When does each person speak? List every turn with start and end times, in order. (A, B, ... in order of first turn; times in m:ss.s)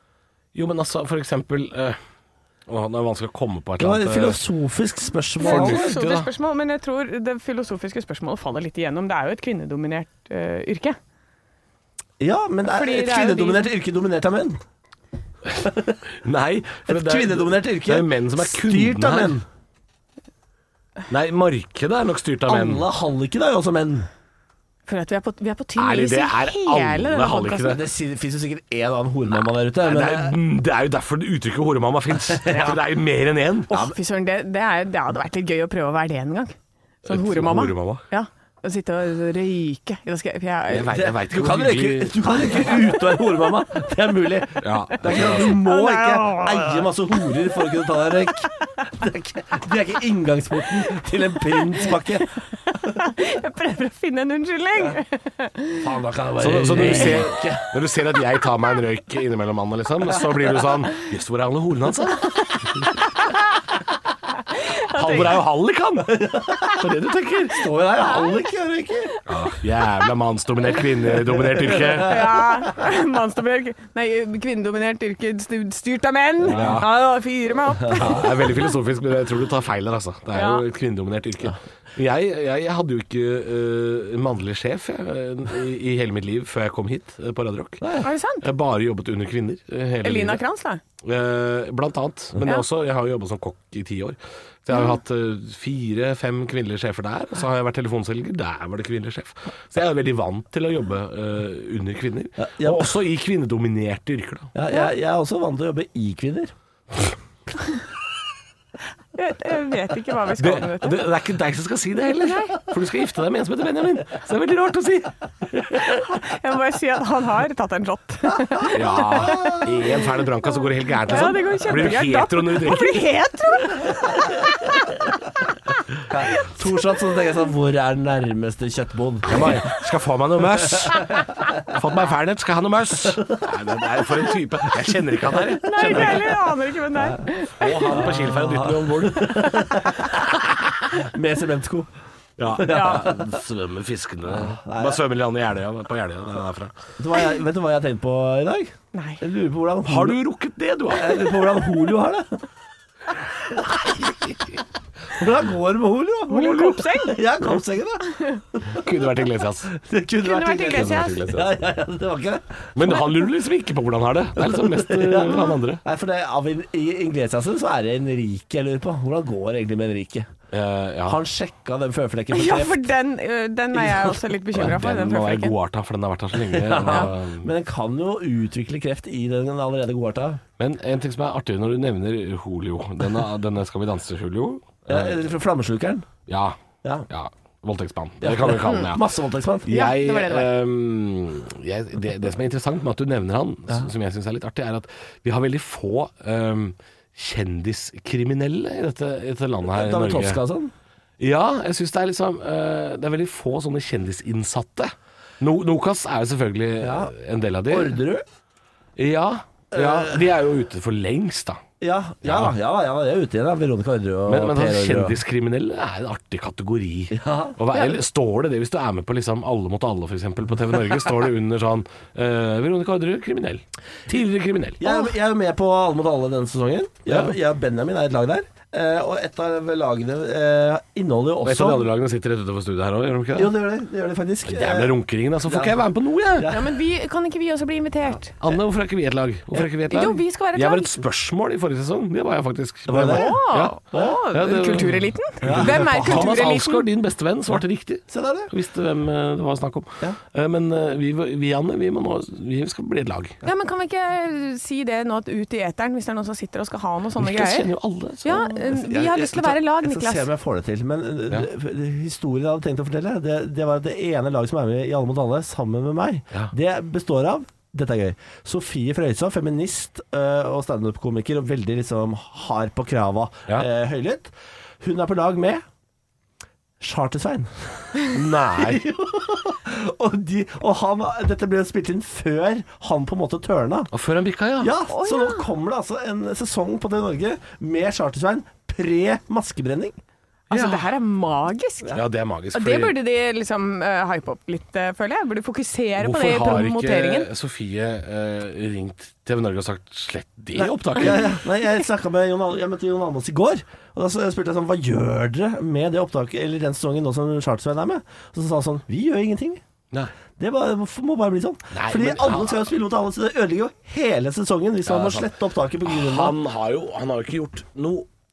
0:00.5-0:02.0 A
0:02.7-0:04.4 A
0:03.8-0:05.9 B
0:05.4-0:11.0 C
0:05.4-0:06.3 A
0:12.2-0:14.6 B
0:12.7-0:13.7 C
0:15.6-0:16.0 B
0:16.2-0:19.4 A
0:16.8-0:19.4 B
0:21.1-0:22.8 A
0:22.5-0:24.1 B
0:24.9-0:27.8 C
0:25.8-0:27.8 A
0:27.6-0:30.4 B
0:29.8-0:33.7 A
0:32.3-0:32.8 B
0:33.7-0:41.0 C
0:33.7-0:33.9 B
0:37.0-0:38.0 A
0:40.7-0:42.5 A
0:40.9-0:52.4 B
0:44.6-0:45.6 A
0:45.1-0:47.6 C
0:51.7-0:55.9 C
0:55.8-0:57.7 B
0:56.4-1:02.4 A
0:56.9-0:57.2 C
1:04.5-1:05.4 C
1:04.8-1:06.2 A
1:06.0-1:09.2 B
1:06.7-1:07.6 A
1:08.0-1:08.4 C
1:09.1-1:09.5 C
1:09.3-1:12.4 A
1:11.2-1:12.7 B
1:11.7-1:18.7 C
1:16.4-1:16.9 A
1:16.5-1:16.8 B
1:17.8-1:18.3 B
1:17.9-1:30.4 A
1:20.3-1:20.6 C
1:27.8-1:28.1 B
1:28.0-1:28.5 C
1:30.0-1:30.8 C
1:31.0-1:44.5 A
1:42.4-1:42.9 B
1:44.5-1:46.5 B
1:49.1-1:51.0 C
1:50.4-1:56.0 A
1:52.2-1:52.6 C
1:55.8-2:00.3 C
1:58.7-2:03.1 A
1:59.2-1:59.6 B
2:00.9-2:05.0 C
2:04.1-2:04.5 B
2:06.1-2:09.7 B
2:06.2-2:07.2 C
2:09.3-2:16.4 A
2:10.6-2:11.2 B
2:15.4-2:16.2 B
2:15.6-2:18.0 C
2:16.9-2:17.3 B
2:17.6-2:21.0 A
2:17.8-2:20.3 B
2:20.9-2:21.9 B
2:22.4-2:26.8 A
2:22.5-2:23.4 B
2:22.7-2:23.1 C
2:24.2-2:25.0 B
2:27.0-2:30.2 B
2:28.9-2:29.2 C
2:29.8-2:31.5 A
2:30.9-2:32.4 B
2:33.8-2:34.6 A
2:35.1-2:38.9 B
2:36.3-2:37.2 C
2:38.1-2:38.4 C
2:38.7-2:39.7 A
2:39.7-2:42.7 B
2:40.2-2:41.3 C
2:40.7-2:41.5 A
2:42.8-2:45.8 A
2:44.4-2:50.3 B
2:50.5-2:51.2 A
2:51.0-2:52.9 B
2:52.3-2:55.6 C
2:53.7-2:54.3 B
2:54.5-2:57.5 A
2:56.4-3:00.4 B
3:00.6-3:05.2 A
3:04.9-3:06.1 B
3:06.3-3:06.6 A
3:07.1-3:09.1 A
3:08.2-3:09.7 B
3:09.6-3:20.4 A
3:09.7-3:10.5 C
3:19.7-3:20.7 B
3:21.2-3:28.0 A
3:26.8-3:27.1 B
3:27.7-3:28.2 B
3:29.0-3:31.6 A
3:29.7-3:30.2 B
3:31.8-3:35.2 B
3:32.2-3:32.5 A
3:34.3-3:44.9 A
3:37.1-3:37.6 B
3:44.8-3:51.9 B
3:47.1-3:47.3 A
3:51.4-3:53.5 A
3:53.3-3:55.8 B
3:54.4-3:56.6 A
3:56.4-3:56.7 B
3:56.5-3:58.4 C
3:58.4-4:13.4 A
3:59.9-4:01.0 C
4:02.9-4:03.4 B
4:03.0-4:06.9 C
4:03.9-4:04.2 B
4:05.4-4:06.4 B
4:08.1-4:08.5 B
4:13.4-4:17.7 C
4:17.2-4:18.7 A
4:18.2-4:20.3 C
4:18.7-4:35.6 B
4:36.8-4:43.9 B
4:38.1-4:38.8 A
4:43.9-4:44.8 A
4:44.6-4:50.0 B
4:44.9-4:45.5 C
4:50.5-4:52.0 C
4:50.5-4:50.9 A
4:51.9-4:53.0 A
4:52.5-4:57.3 C
4:56.0-5:01.4 A
5:00.5-5:09.6 B
5:10.4-5:16.4 B
5:11.7-5:12.7 A
5:14.8-5:15.3 A
5:15.8-5:18.1 A